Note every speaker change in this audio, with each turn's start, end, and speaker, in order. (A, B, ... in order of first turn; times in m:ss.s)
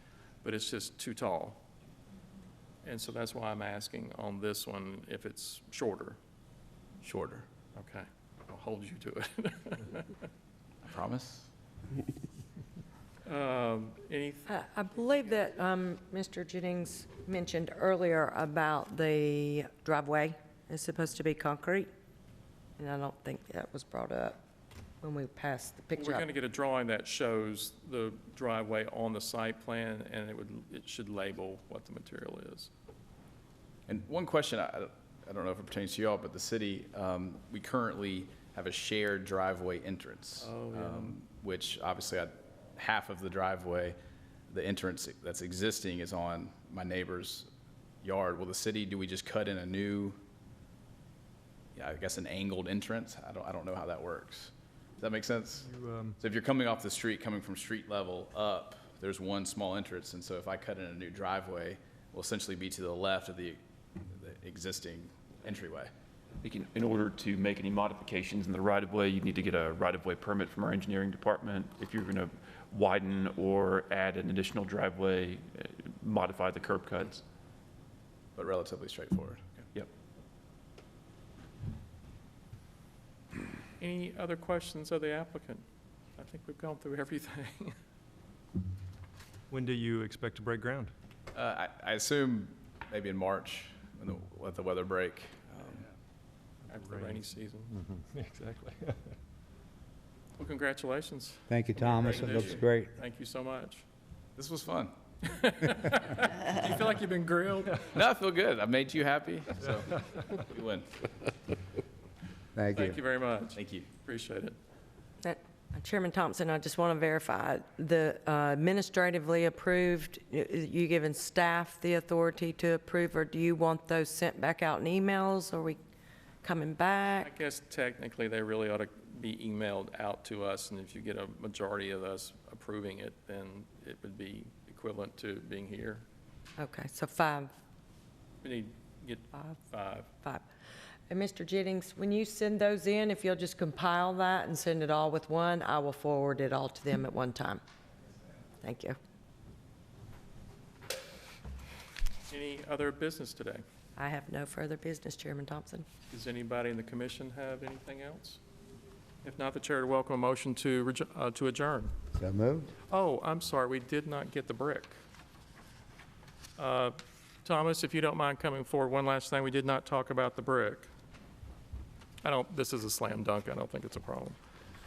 0:00.4-0:01.6 A
0:02.8-0:06.2 A
0:07.0-0:07.5 B
0:07.8-0:10.3 A
0:10.8-0:11.5 B
0:13.3-0:15.4 A
0:14.5-0:21.9 C
0:22.8-0:24.4 C
0:25.0-0:26.3 C
0:26.0-0:32.7 A
0:33.9-0:44.0 B
0:40.4-0:41.1 A
0:44.5-0:47.5 B
0:48.0-0:50.2 B
0:51.8-1:05.9 B
0:55.7-0:56.2 D
1:06.4-1:17.2 E
1:18.4-1:19.5 B
1:23.8-1:25.6 A
1:26.2-1:27.8 A
1:29.5-1:30.9 D
1:31.3-1:35.8 B
1:36.7-1:37.7 A
1:36.9-1:37.2 D
1:37.8-1:39.1 D
1:40.4-1:43.8 A
1:41.5-1:42.9 F
1:44.4-1:44.9 B
1:45.3-1:48.0 A
1:47.8-1:51.0 B
1:52.6-1:53.0 F
1:52.8-1:54.6 A
1:53.6-1:53.9 B
1:55.2-2:05.8 C
2:06.4-2:07.3 C
2:07.2-2:16.0 A
2:16.6-2:17.5 C
2:18.4-2:20.1 A
2:19.3-2:19.6 C
2:21.1-2:27.6 C
2:28.6-2:29.0 C
2:32.3-2:33.6 A
2:34.0-2:35.9 C
2:36.1-2:38.4 A
2:39.2-2:41.9 A
2:42.1-2:42.7 F
2:42.9-2:45.0 A
2:46.6-2:50.9 A
2:52.2-2:54.4 A